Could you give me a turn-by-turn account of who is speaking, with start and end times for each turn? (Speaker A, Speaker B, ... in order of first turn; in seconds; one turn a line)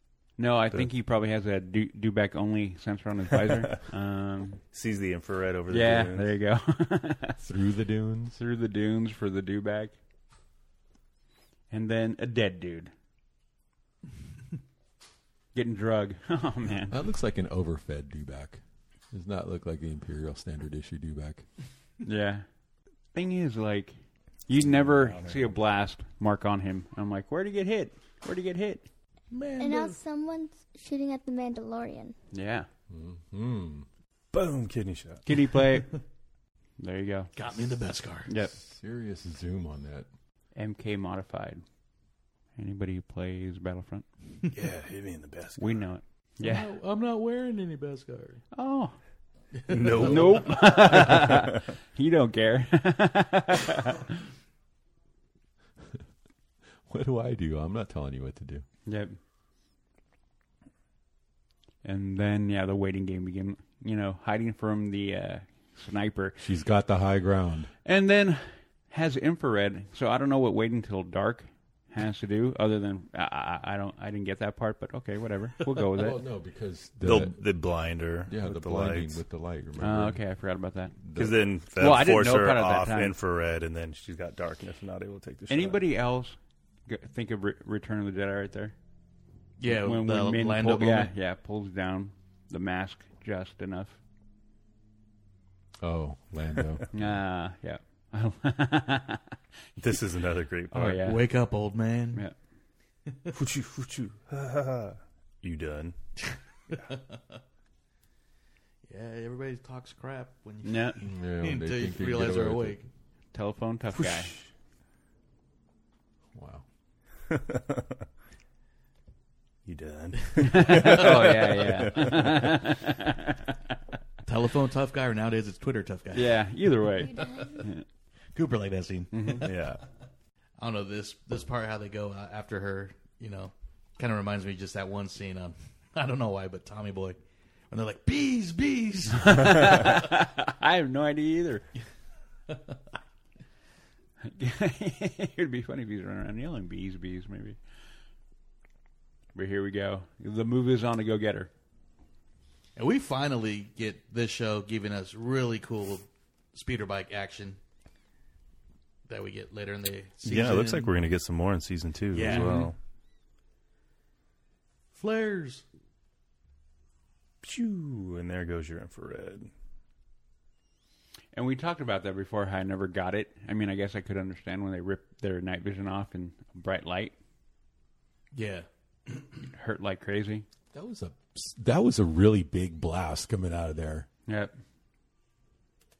Speaker A: 0.4-4.6
Speaker B: 4.7-6.3
Speaker A: 5.7-7.4
Speaker C: 7.4-8.4
Speaker A: 8.3-9.9
Speaker A: 11.7-12.9
Speaker A: 15.5-17.0
Speaker C: 16.9-21.4
Speaker A: 22.0-22.4
Speaker A: 23.1-23.9
Speaker A: 24.5-28.9
Speaker B: 24.8-25.5
Speaker D: 29.3-30.0
Speaker E: 29.6-32.1
Speaker A: 32.3-32.7
Speaker C: 32.9-33.9
Speaker B: 34.3-35.2
Speaker A: 35.2-36.0
Speaker A: 36.8-37.3
Speaker D: 37.4-38.3
Speaker A: 38.3-38.6
Speaker C: 38.4-40.1
Speaker A: 40.5-41.6
Speaker A: 42.6-44.0
Speaker B: 44.5-45.8
Speaker A: 45.6-46.7
Speaker D: 46.4-48.4
Speaker A: 48.5-49.0
Speaker D: 49.5-51.1
Speaker B: 49.7-51.6
Speaker A: 49.9-54.1
Speaker C: 56.9-58.6
Speaker A: 58.9-59.2
Speaker A: 61.8-66.4
Speaker C: 66.4-67.7
Speaker A: 67.8-76.2
Speaker C: 75.9-77.4
Speaker B: 77.0-79.2
Speaker C: 78.2-80.2
Speaker A: 79.8-81.0
Speaker C: 81.0-81.4
Speaker B: 81.1-85.8
Speaker A: 81.8-83.1
Speaker A: 85.5-88.7
Speaker D: 89.6-91.1
Speaker A: 89.6-94.0
Speaker C: 95.8-96.8
Speaker A: 96.9-99.3
Speaker B: 99.8-101.1
Speaker A: 100.7-101.2
Speaker D: 101.0-102.2
Speaker D: 103.1-103.3
Speaker B: 103.3-105.9
Speaker D: 106.7-107.4
Speaker D: 108.9-112.9
Speaker A: 110.6-111.0
Speaker C: 111.0-112.8
Speaker A: 113.3-114.3
Speaker B: 114.0-114.5
Speaker C: 116.3-116.6
Speaker B: 117.3-117.9
Speaker B: 119.7-122.6
Speaker A: 120.4-123.6
Speaker D: 120.5-121.4
Speaker D: 124.2-127.7
Speaker A: 126.1-127.8
Speaker D: 128.3-129.6
Speaker A: 129.1-129.5
Speaker B: 129.4-129.8
Speaker D: 130.6-137.2
Speaker D: 137.7-140.0
Speaker A: 139.2-141.6
Speaker A: 144.2-147.6
Speaker A: 149.3-151.5
Speaker D: 152.8-157.6
Speaker D: 159.1-160.9
Speaker B: 160.2-162.7
Speaker D: 162.1-162.7
Speaker A: 162.2-162.7
Speaker D: 164.9-165.6
Speaker B: 167.4-169.5
Speaker A: 171.3-177.1
Speaker D: 178.3-179.4
Speaker A: 179.5-180.4
Speaker C: 180.7-184.1
Speaker A: 184.3-184.5